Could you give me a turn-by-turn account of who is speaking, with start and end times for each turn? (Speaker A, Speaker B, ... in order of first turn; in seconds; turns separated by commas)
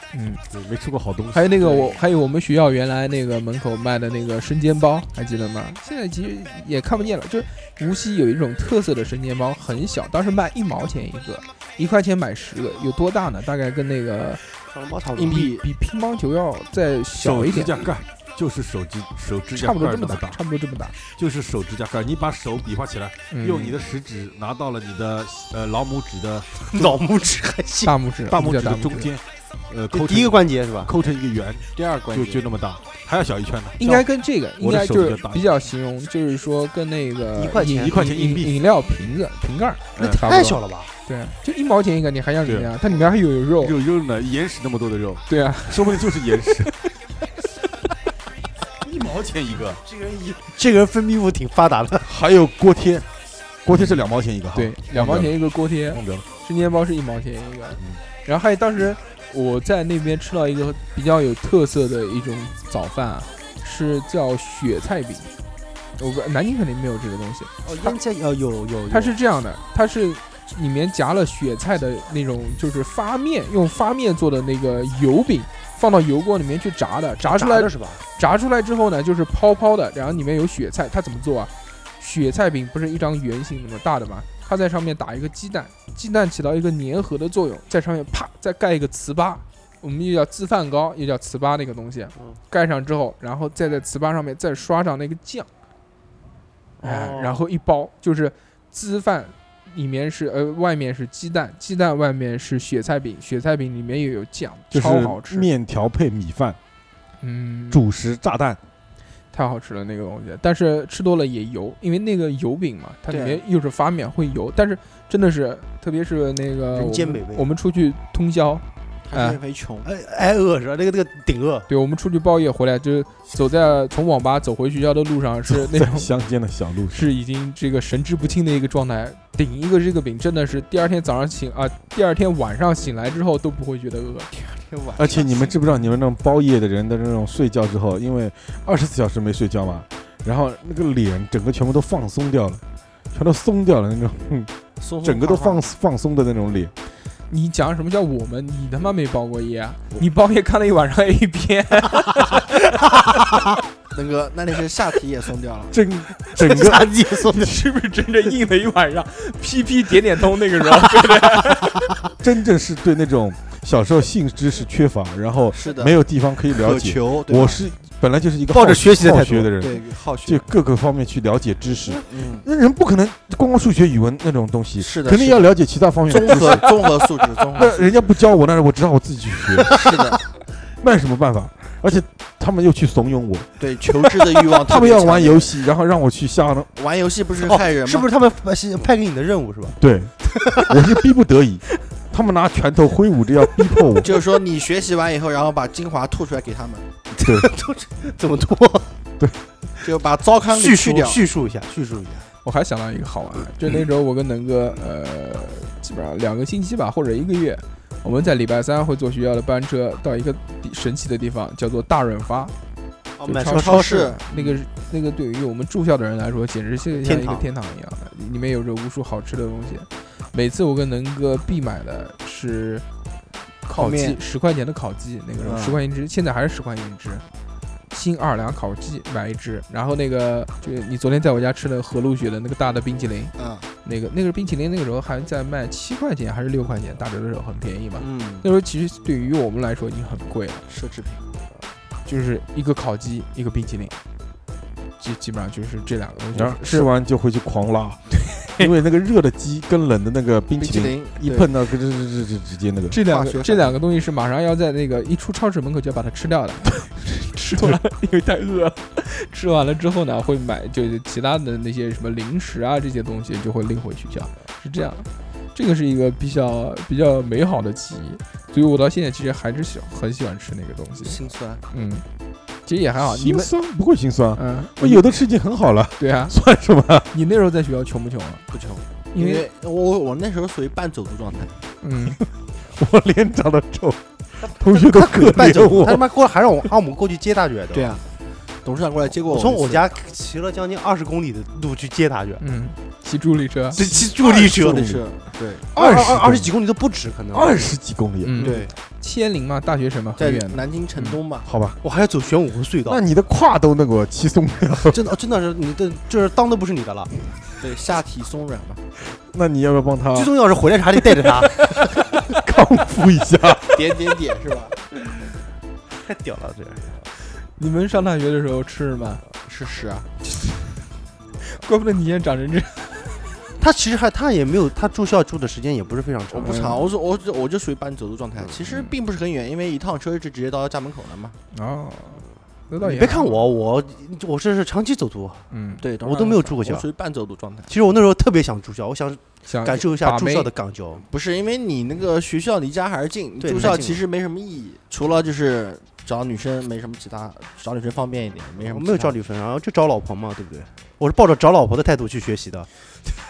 Speaker A: 0.1-0.4, Speaker B: 0.5-1.8, Speaker A: 1.3-14.4, Speaker C: 14.7-15.4, Speaker D: 15.2-15.6, Speaker A: 15.3-17.8, Speaker B: 17.2-20.4, Speaker A: 19.5-21.0, Speaker B: 21.1-27.0, Speaker A: 23.3-23.8, Speaker C: 26.7-28.0, Speaker A: 27.8-29.1, Speaker B: 28.3-34.1, Speaker C: 29.9-30.9, Speaker D: 31.8-32.5, Speaker A: 33.8-43.8, Speaker B: 34.6-35.5, Speaker C: 37.4-38.0, Speaker B: 37.8-38.5, Speaker B: 40.0-40.2, Speaker C: 40.0-40.9, Speaker B: 42.5-43.0, Speaker B: 43.6-46.7, Speaker A: 45.3-46.0, Speaker B: 48.8-49.8, Speaker C: 49.8-52.1, Speaker B: 52.0-53.1, Speaker B: 53.6-55.4, Speaker A: 54.5-65.3, Speaker B: 55.9-56.3, Speaker A: 66.0-68.0, Speaker C: 67.6-69.2, Speaker A: 68.9-95.5, Speaker C: 77.2-78.0, Speaker C: 96.8-97.4, Speaker A: 96.8-105.5, Speaker B: 104.7-106.6, Speaker A: 107.2-107.8, Speaker B: 107.7-108.6, Speaker A: 109.3-119.4, Speaker D: 113.1-113.4, Speaker C: 116.7-117.5, Speaker D: 119.1-119.9, Speaker C: 119.8-121.7, Speaker A: 121.7-126.1, Speaker B: 125.5-127.1, Speaker A: 126.9-134.3, Speaker D: 134.3-135.6, Speaker B: 135.0-142.6, Speaker B: 143.1-146.7, Speaker D: 144.8-145.7, Speaker A: 147.3-152.5, Speaker D: 153.9-155.8, Speaker B: 155.7-157.0, Speaker C: 156.3-157.5, Speaker A: 157.3-161.9, Speaker B: 162.2-179.8, Speaker D: 165.5-165.9, Speaker D: 166.5-167.6, Speaker C: 168.5-169.5, Speaker D: 169.6-170.5, Speaker D: 171.9-172.5, Speaker D: 174.8-175.5, Speaker D: 176.1-178.0, Speaker D: 179.6-180.2, Speaker C: 179.6-180.0, Speaker B: 180.8-183.5, Speaker D: 183.6-185.7, Speaker B: 184.2-186.7, Speaker D: 186.8-188.1, Speaker C: 187.4-189.8, Speaker B: 189.8-190.1, Speaker C: 190.4-190.8, Speaker B: 190.7-194.1, Speaker D: 194.0-196.9, Speaker B: 197.2-197.5, Speaker C: 197.2-198.9, Speaker D: 199.8-201.2, Speaker C: 200.5-202.3, Speaker A: 202.4-212.5, Speaker C: 213.2-214.2, Speaker D: 213.2-214.2, Speaker A: 213.3-222.8, Speaker D: 223.7-224.2, Speaker A: 223.7-227.2, Speaker D: 225.4-225.8, Speaker A: 227.9-233.3, Speaker D: 233.4-233.7, Speaker A: 233.8-240.6, Speaker D: 238.0-238.5, Speaker D: 240.7-241.2, Speaker A: 242.1-244.0, Speaker A: 245.0-246.9, Speaker B: 246.3-253.0, Speaker D: 250.6-251.5, Speaker A: 252.9-271.2, Speaker D: 253.1-253.8, Speaker D: 271.0-271.6, Speaker A: 271.7-272.0, Speaker A: 272.7-273.5, Speaker B: 273.0-277.1, Speaker A: 274.4-275.1, Speaker A: 276.0-276.4, Speaker A: 277.1-278.4, Speaker D: 278.5-281.5, Speaker A: 279.1-279.5, Speaker A: 281.8-282.2, Speaker B: 282.7-286.1, Speaker C: 284.4-287.9, Speaker D: 287.7-288.0, Speaker D: 288.6-289.9, Speaker C: 289.3-292.4, Speaker A: 292.4-293.8, Speaker C: 293.8-294.9, Speaker D: 294.2-295.7, Speaker B: 294.5-295.0, Speaker B: 295.7-296.5, Speaker C: 295.7-297.7, Speaker B: 297.3-298.4, Speaker A: 298.2-301.2, Speaker C: 298.4-298.7, Speaker D: 298.4-298.7, Speaker D: 300.2-301.5, Speaker B: 301.5-301.8, Speaker C: 301.8-303.0, Speaker B: 302.9-305.0, Speaker C: 304.9-307.1, Speaker D: 307.6-308.9, Speaker B: 309.3-310.3, Speaker C: 310.1-311.6, Speaker B: 311.3-313.9, Speaker D: 313.7-314.8, Speaker C: 315.9-317.0, Speaker A: 317.6-319.2, Speaker D: 319.5-320.1, Speaker A: 321.4-323.2, Speaker C: 323.6-326.9, Speaker D: 326.3-331.4, Speaker A: 326.4-326.9, Speaker A: 331.5-333.4, Speaker C: 332.8-335.4, Speaker A: 335.5-335.9, Speaker D: 335.8-337.7, Speaker C: 336.0-336.9, Speaker C: 337.7-341.1, Speaker A: 339.5-340.5, Speaker D: 341.0-349.2, Speaker C: 343.4-344.0, Speaker C: 348.6-352.7